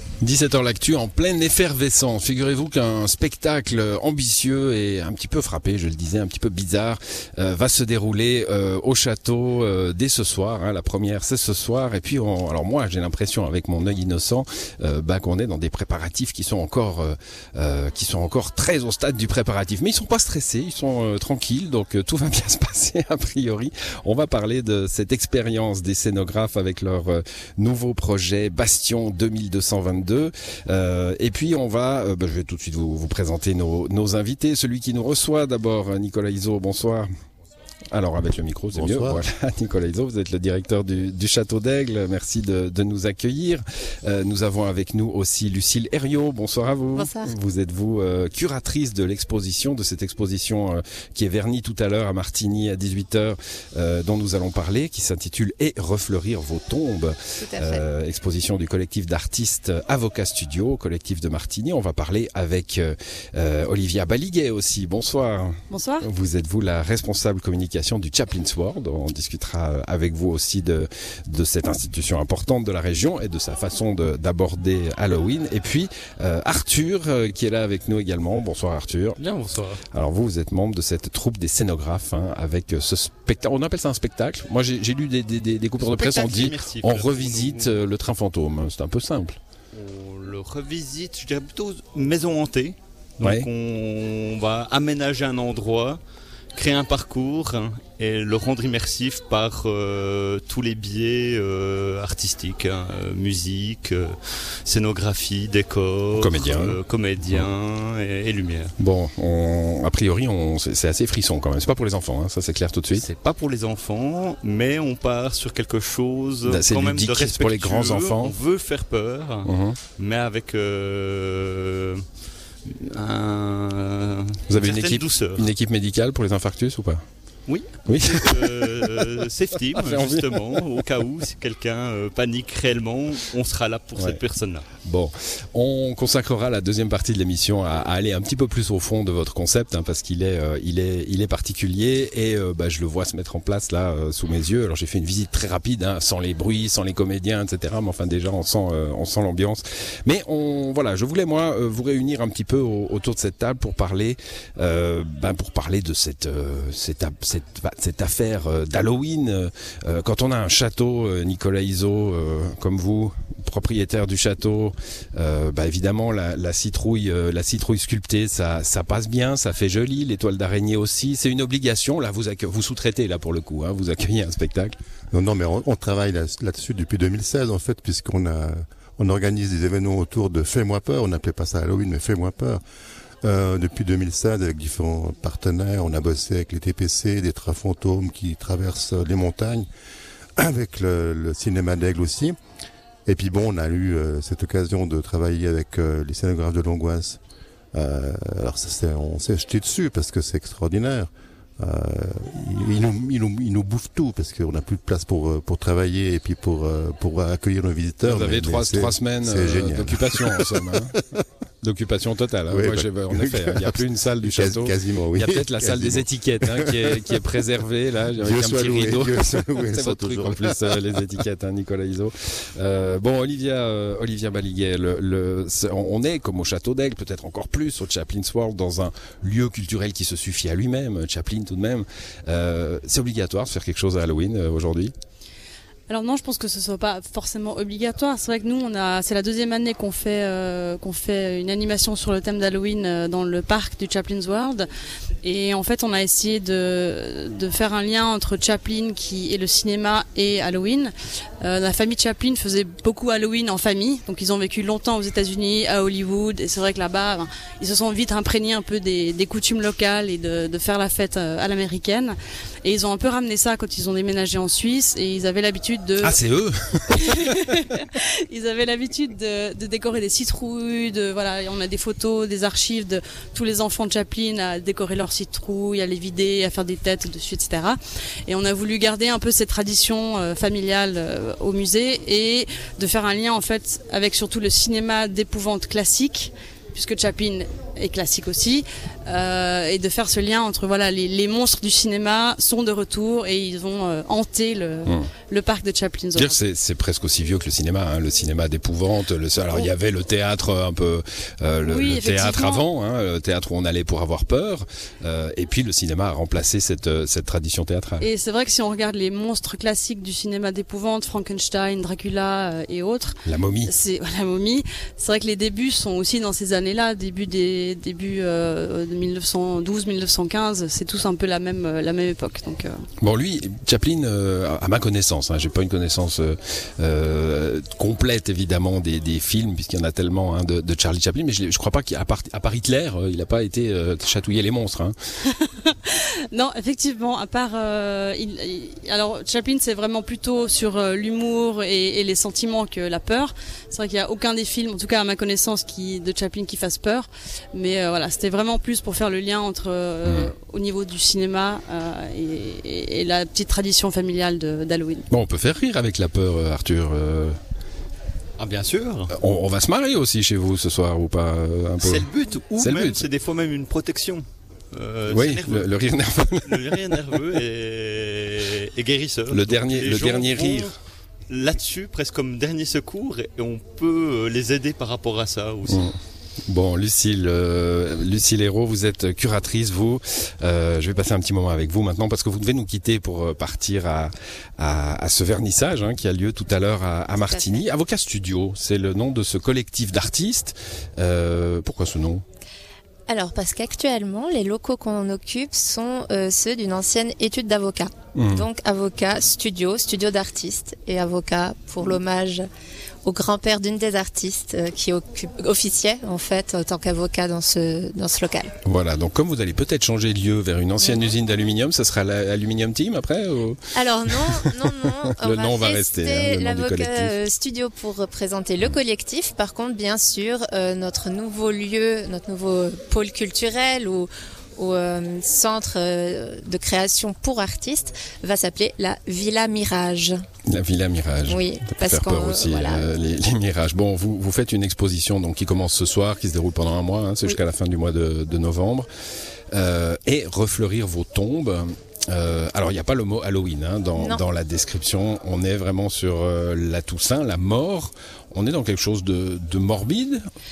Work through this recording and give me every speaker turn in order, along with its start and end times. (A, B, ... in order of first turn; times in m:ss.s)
0:00.2-0:37.1 A
0:37.9-1:19.2 A
0:38.7-0:39.2 B
0:46.9-0:47.3 C
0:57.4-0:57.8 C
1:05.7-1:06.0 D
1:19.2-1:19.8 E
1:19.9-1:29.4 A
1:25.8-1:27.8 E
1:29.7-1:36.0 E
1:33.2-1:33.5 A
1:36.5-1:48.7 E
1:46.1-1:47.5 A
1:48.8-1:53.0 A
1:52.9-2:02.0 E
1:56.4-1:58.4 A
1:59.4-1:59.8 A
2:02.6-2:05.5 E
2:04.5-2:07.0 A
2:07.5-2:14.7 E
2:07.9-2:10.8 A
2:14.0-2:14.2 A
2:14.8-2:54.8 A
2:55.1-3:02.6 B
3:03.2-3:09.7 B
3:10.4-3:12.4 B
3:13.0-3:17.2 B
3:17.7-3:30.9 B
3:28.0-3:30.9 A
3:31.6-3:54.9 A
3:32.5-3:37.2 B
3:38.2-3:41.1 B
3:55.9-4:04.7 D
4:05.2-4:26.2 D
4:26.0-4:27.3 A
4:26.9-4:56.4 D
4:56.2-5:08.1 A
5:01.7-5:02.6 D
5:08.0-5:22.8 D
5:13.2-5:13.7 A
5:23.0-5:34.9 A
5:35.3-5:55.0 D
5:50.0-5:50.3 A
5:55.1-5:57.4 A
5:58.4-5:59.1 E
5:59.1-6:03.1 A
6:01.8-6:05.7 E
6:05.1-6:07.2 A
6:06.4-6:10.7 E
6:09.3-6:10.7 A
6:11.3-6:15.8 E
6:15.6-6:16.0 A
6:16.5-6:32.2 A
6:27.2-6:27.6 C
6:33.1-6:42.4 C
6:38.2-6:38.4 A
6:43.0-6:48.5 C
6:48.6-6:57.1 A
6:53.7-7:10.2 C
7:10.5-7:18.9 A
7:11.3-7:12.9 C
7:19.5-7:30.2 A
7:24.0-7:24.2 C